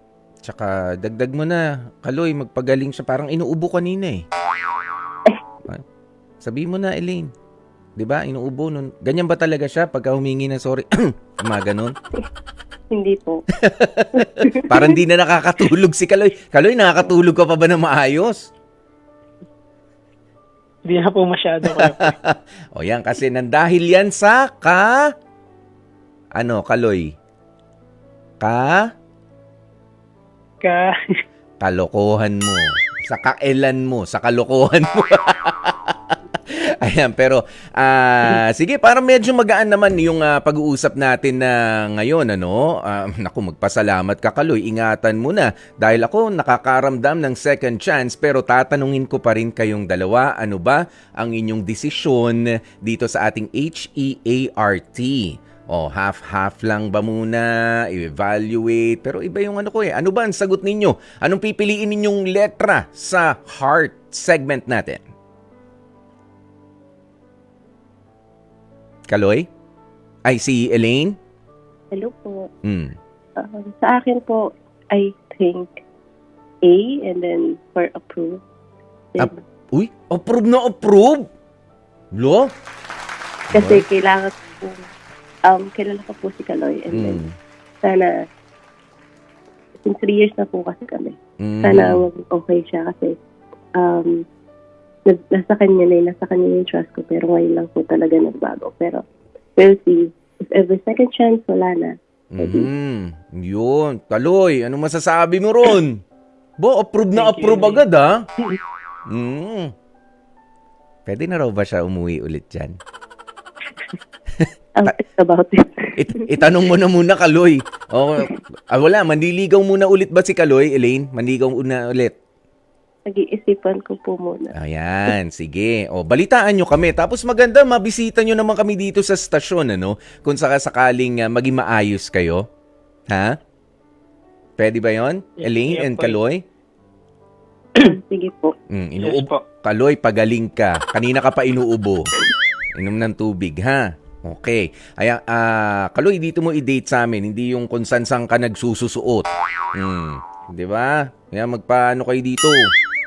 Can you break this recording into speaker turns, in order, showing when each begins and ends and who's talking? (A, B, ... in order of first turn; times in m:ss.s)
0:00.4-0:04.2 A
0:06.4-0:07.3 A
0:08.0-0:11.9 A
0:12.9-0:13.4 B
0:13.6-0:18.5 A
0:14.1-0:15.0 B
0:20.8-0:22.2 C
0:21.7-0:25.1 A
0:26.4-0:27.1 A
0:28.4-0:28.8 A
0:30.6-0:31.2 C
0:31.6-1:05.0 A
1:09.1-1:09.5 A
1:10.3-1:11.2 A
1:11.9-1:12.5 B
1:12.6-1:12.9 A
1:13.4-1:15.7 B
1:16.6-1:18.4 B
1:19.2-1:21.3 A
1:22.2-1:22.5 A
1:23.5-1:23.8 A
1:23.5-1:24.8 B
1:25.5-1:27.2 B
1:26.9-1:27.3 A
1:27.8-1:28.1 B
1:29.8-1:33.2 B
1:31.4-1:32.0 A
1:33.8-1:34.2 B
1:35.1-1:39.0 B
1:39.6-1:42.7 B
1:42.3-1:46.0 A
1:46.6-1:48.2 A
1:47.2-1:47.8 C
1:49.1-1:49.7 A
1:51.1-1:52.8 A
1:54.4-1:54.9 A
1:54.8-1:56.3 B
1:56.0-2:02.2 A
2:03.1-2:04.5 B
2:04.5-2:12.4 A
2:13.1-2:13.4 A
2:14.6-2:16.4 A
2:15.4-2:16.2 C
2:17.8-2:18.5 B
2:18.7-2:22.1 A
2:19.0-2:19.4 C
2:22.8-2:32.7 A